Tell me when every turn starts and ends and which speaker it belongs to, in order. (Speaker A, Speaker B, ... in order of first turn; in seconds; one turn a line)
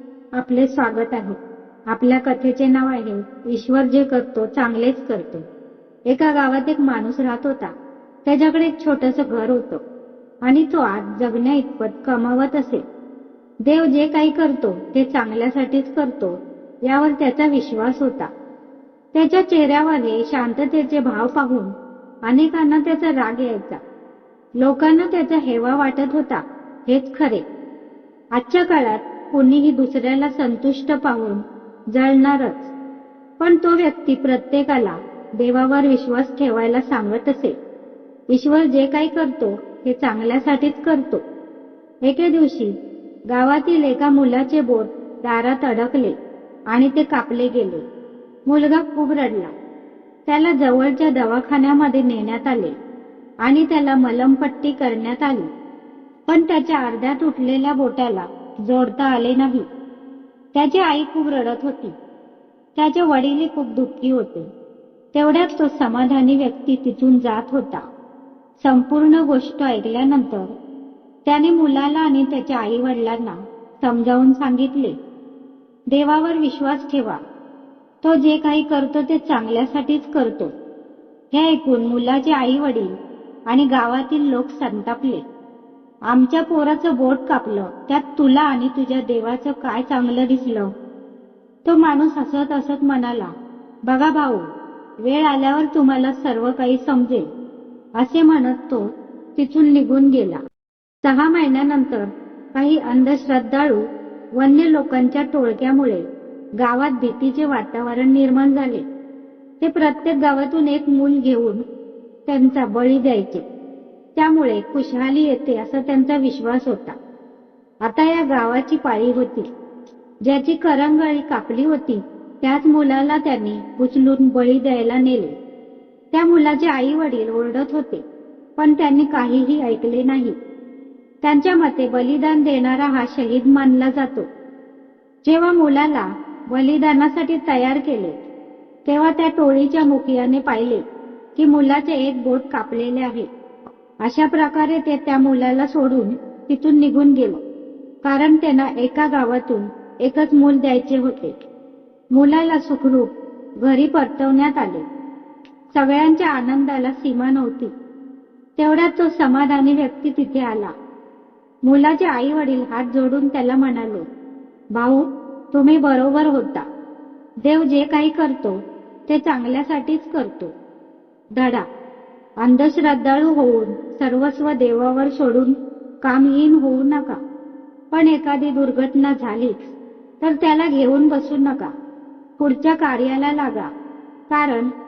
Speaker A: 0.4-5.4
Speaker A: 6.1-7.7
Speaker A: 8.3-9.8
Speaker A: 10.4-12.8
Speaker A: 13.6-18.3
Speaker A: 19.1-21.7
Speaker A: 22.3-23.8
Speaker A: 24.6-27.4
Speaker A: 28.3-32.7
Speaker A: 33.4-37.6
Speaker A: 38.3-41.2
Speaker A: 42.0-42.8
Speaker A: 43.3-46.1
Speaker A: 46.7-47.8
Speaker A: 48.5-49.5
Speaker A: 50.3-52.8
Speaker A: 53.4-55.5
Speaker A: 56.3-59.7
Speaker A: 60.5-62.0
Speaker A: 62.8-64.5
Speaker A: 65.1-67.8
Speaker A: 68.6-70.5
Speaker A: 71.3-75.0
Speaker A: 75.9-77.2
Speaker A: 78.0-80.5
Speaker A: 81.3-82.9
Speaker A: 83.5-85.2
Speaker A: 86.1-90.7
Speaker A: 91.7-93.3
Speaker A: 93.9-94.5
Speaker A: 95.0-97.3
Speaker A: 98.0-100.4
Speaker A: 101.0-103.8
Speaker A: 104.4-106.0
Speaker A: 106.6-108.9
Speaker A: 109.6-111.6
Speaker A: 112.3-113.4
Speaker A: 114.2-117.0
Speaker A: 117.8-119.5
Speaker A: 120.2-125.3
Speaker A: 126.1-128.0
Speaker A: 128.6-130.4
Speaker A: 131.2-134.3
Speaker A: 135.2-138.2
Speaker A: 138.9-140.8
Speaker A: 141.4-143.3
Speaker A: 144.0-147.4
Speaker A: 148.0-151.3
Speaker A: 152.1-154.8
Speaker A: 155.8-157.7
Speaker A: 158.6-160.7
Speaker A: 161.6-164.1
Speaker A: 164.7-166.6
Speaker A: 167.4-170.5
Speaker A: 171.4-171.7
Speaker A: 172.4-177.2
Speaker A: 177.9-181.7
Speaker A: 182.4-183.7
Speaker A: 184.3-184.7